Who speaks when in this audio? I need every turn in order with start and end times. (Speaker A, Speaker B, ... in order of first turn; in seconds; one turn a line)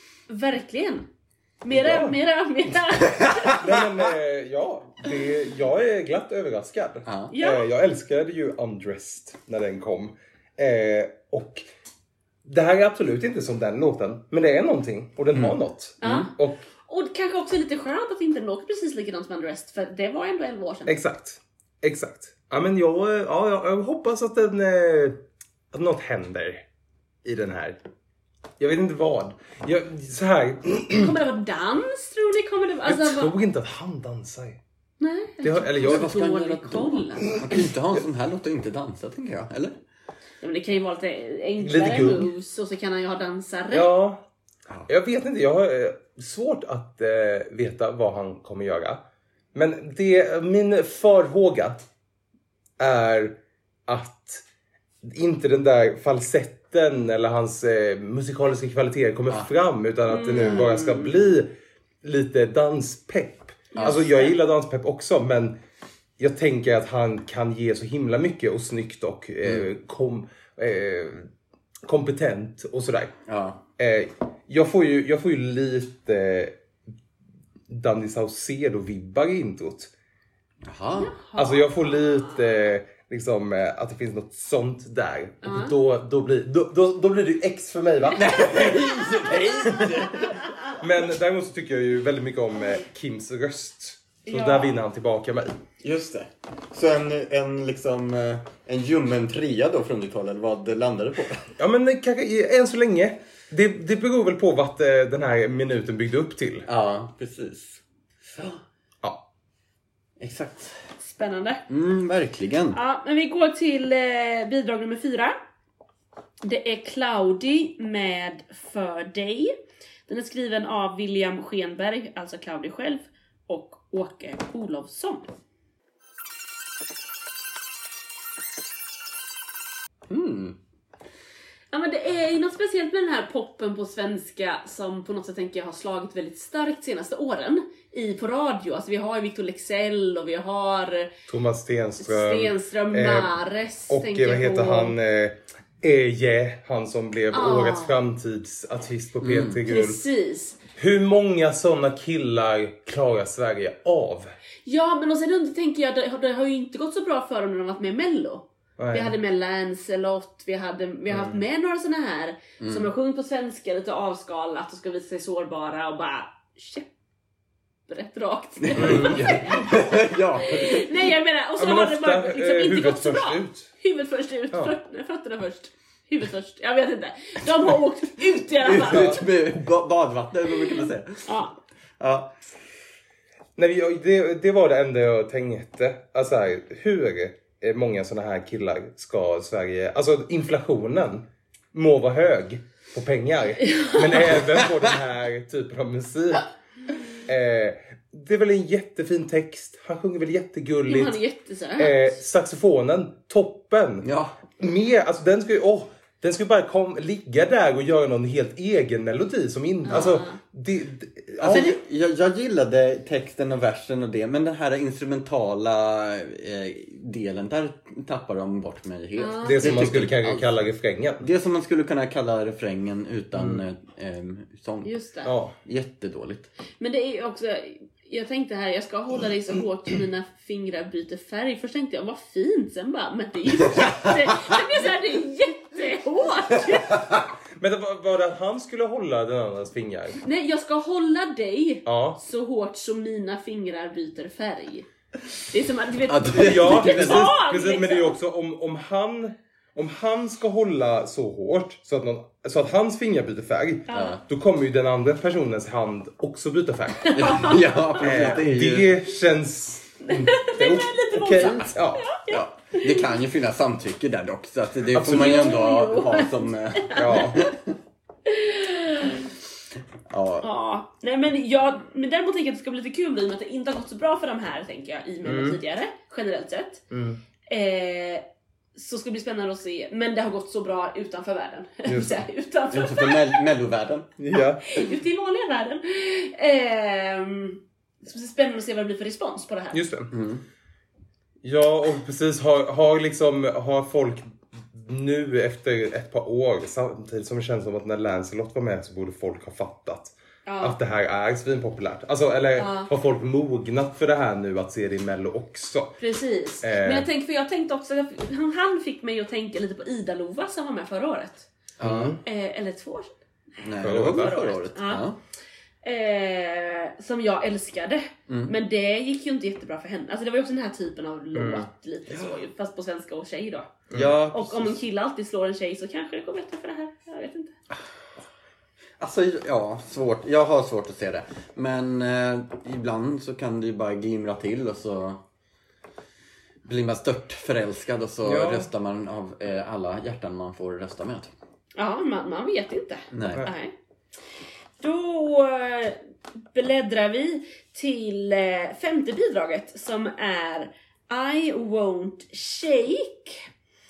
Speaker A: 0.3-1.1
Speaker A: 1.6-3.8
Speaker B: 1.7-2.2
Speaker C: 3.2-3.5
Speaker B: 3.5-11.7
Speaker C: 7.0-7.3
Speaker A: 7.3-7.7
Speaker B: 12.4-16.6
Speaker C: 15.3-16.3
Speaker A: 16.0-16.3
Speaker A: 16.9-21.0
Speaker B: 20.9-25.2
Speaker B: 25.7-26.6
Speaker B: 27.2-27.8
Speaker B: 28.6-31.2
Speaker A: 30.9-33.3
Speaker B: 32.9-34.6
Speaker A: 35.0-37.3
Speaker B: 35.4-36.2
Speaker C: 35.8-39.8
Speaker B: 37.3-37.7
Speaker A: 40.4-43.9
Speaker B: 41.6-42.3
Speaker B: 43.7-44.2
Speaker B: 44.9-49.0
Speaker B: 49.5-51.9
Speaker B: 52.8-54.4
Speaker B: 55.0-65.6
Speaker A: 60.1-61.1
Speaker A: 63.7-64.3
Speaker C: 63.8-64.0
Speaker B: 66.2-71.3
Speaker C: 69.4-69.7
Speaker B: 71.9-73.2
Speaker C: 73.3-73.6
Speaker B: 73.8-76.6
Speaker B: 77.7-79.9
Speaker C: 80.7-81.2
Speaker A: 80.9-82.3
Speaker B: 81.4-89.1
Speaker A: 85.4-85.8
Speaker C: 88.2-90.5
Speaker B: 90.8-95.6
Speaker A: 94.3-94.8
Speaker C: 95.8-101.5
Speaker B: 101.6-106.7
Speaker C: 106.7-108.6
Speaker C: 110.2-110.8
Speaker A: 111.0-111.6
Speaker C: 111.7-112.8
Speaker A: 112.7-115.4
Speaker A: 116.4-119.5
Speaker A: 120.1-125.3
Speaker C: 130.1-130.6
Speaker A: 131.7-141.1
Speaker B: 141.3-143.3
Speaker A: 142.0-144.9
Speaker B: 143.9-150.0
Speaker A: 147.3-147.9
Speaker C: 149.2-149.6
Speaker A: 149.7-150.6
Speaker B: 150.8-154.3
Speaker A: 154.7-166.9
Speaker B: 158.8-159.1
Speaker B: 161.1-161.4
Speaker C: 162.6-162.9
Speaker A: 167.9-179.2
Speaker C: 168.6-170.9
Speaker B: 168.8-169.4
Speaker B: 171.6-173.7
Speaker C: 178.6-181.3
Speaker B: 178.8-179.3
Speaker A: 180.7-181.6
Speaker C: 182.0-182.4
Speaker B: 183.6-196.5
Speaker A: 193.6-194.1
Speaker C: 194.4-194.8
Speaker B: 197.1-201.2
Speaker A: 200.9-202.1
Speaker B: 201.8-211.8
Speaker C: 204.0-204.4
Speaker A: 209.8-210.4
Speaker C: 209.9-210.2
Speaker C: 211.4-220.6
Speaker A: 219.2-219.9
Speaker B: 219.4-221.3
Speaker C: 221.2-224.9
Speaker B: 223.4-223.6
Speaker A: 224.8-225.3
Speaker B: 225.2-225.6
Speaker C: 225.7-226.5
Speaker A: 226.8-237.0
Speaker B: 237.6-240.2
Speaker A: 240.2-244.9
Speaker B: 241.8-242.2
Speaker A: 245.5-248.2
Speaker C: 246.1-247.3
Speaker B: 246.3-262.1
Speaker A: 253.9-254.2
Speaker C: 253.9-254.2
Speaker A: 257.0-258.3
Speaker C: 257.1-258.9
Speaker A: 260.0-263.1
Speaker C: 261.4-261.7
Speaker C: 262.3-267.8
Speaker B: 264.9-265.6
Speaker A: 265.1-267.3
Speaker B: 266.9-267.4
Speaker A: 268.3-269.3
Speaker C: 270.1-270.5
Speaker A: 270.4-276.8
Speaker B: 275.2-275.6
Speaker B: 276.9-277.2
Speaker A: 277.5-278.2
Speaker A: 278.8-283.5
Speaker B: 281.9-282.2
Speaker C: 282.7-284.1
Speaker B: 284.2-284.6
Speaker A: 284.6-289.8
Speaker B: 289.7-290.1
Speaker C: 290.1-290.4
Speaker B: 291.4-306.0
Speaker A: 300.5-300.8
Speaker A: 302.6-302.9
Speaker A: 306.0-311.5
Speaker B: 306.6-307.1
Speaker C: 311.8-312.2
Speaker B: 311.8-312.2
Speaker A: 312.2-315.1
Speaker C: 313.6-315.2
Speaker B: 313.8-314.4
Speaker A: 315.8-323.7
Speaker C: 318.3-318.5
Speaker B: 321.3-321.7
Speaker C: 322.1-322.4
Speaker B: 323.9-324.2
Speaker C: 323.9-324.8
Speaker A: 324.3-327.6
Speaker C: 329.0-335.2
Speaker C: 336.6-341.3
Speaker B: 338.2-338.7
Speaker A: 341.8-343.7
Speaker C: 343.1-343.5
Speaker A: 344.8-353.5